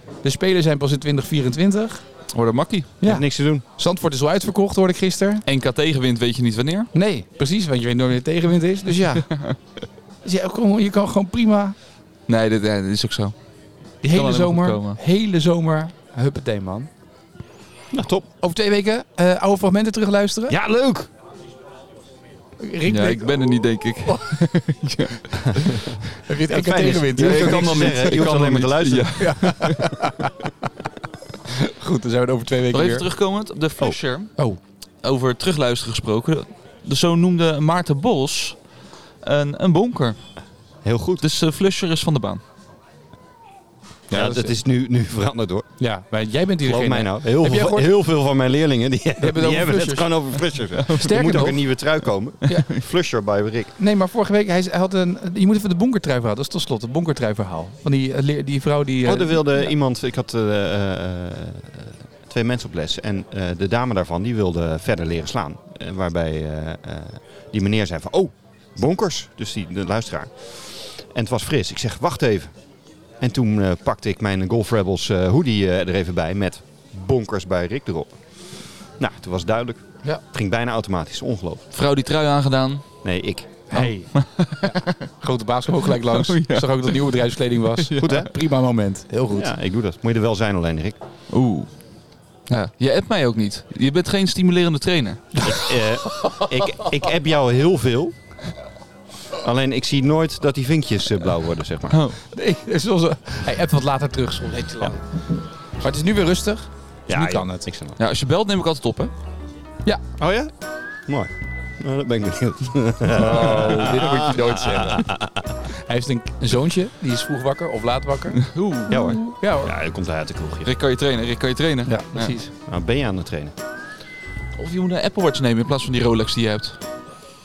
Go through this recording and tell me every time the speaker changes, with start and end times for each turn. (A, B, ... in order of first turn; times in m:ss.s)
0:00.2-0:02.0 A
0:02.3-0:02.9 B
0:03.0-0:05.4 A
0:03.0-0:03.6 C
0:05.4-0:06.9 B
0:06.9-0:09.4 A
0:10.2-0:11.7 A
0:12.3-0:13.3 B
0:14.0-0:16.9 A
0:14.1-0:15.0 B
0:17.9-0:18.3 C
0:18.4-0:20.6 A
0:20.5-0:21.1 C
0:22.6-0:24.2 A
0:22.9-0:25.9 B
0:25.4-0:29.4 C
0:26.1-0:28.0 A
0:26.9-0:29.9 B
0:29.2-0:30.4 A
0:31.8-0:33.1 A
0:32.7-0:34.3 B
0:35.0-0:38.7 B
0:39.2-0:40.2 B
0:40.8-0:41.2 C
0:41.2-0:42.4 B
0:44.1-0:44.6 A
0:44.1-0:45.7 C
0:45.8-0:47.9 A
0:46.6-0:53.7 C
0:49.2-0:51.6 A
0:50.8-0:51.2 B
0:52.5-0:52.8 B
0:53.8-0:59.7 A
0:59.0-1:12.5 C
1:13.2-1:21.6 C
1:21.7-1:22.8 B
1:23.0-1:23.6 C
1:23.7-1:29.5 A
1:23.7-1:24.9 B
1:25.8-1:27.2 B
1:27.8-1:28.2 B
1:28.0-1:28.3 C
1:29.3-1:31.0 C
1:31.3-1:31.7 B
1:32.5-1:35.7 B
1:35.4-1:36.5 A
1:35.4-1:38.2 C
1:39.3-1:42.0 C
1:41.9-1:42.2 B
1:42.3-1:45.0 A
1:45.8-1:47.7 A
1:47.1-1:48.0 C
1:48.0-1:49.1 B
1:50.2-1:50.5 C
1:51.1-1:55.6 C
1:53.1-1:59.7 A
1:58.4-1:59.0 B
1:58.9-2:00.7 C
2:00.6-2:02.4 B
2:01.9-2:02.5 A
2:02.6-2:03.5 C
2:04.6-2:06.8 B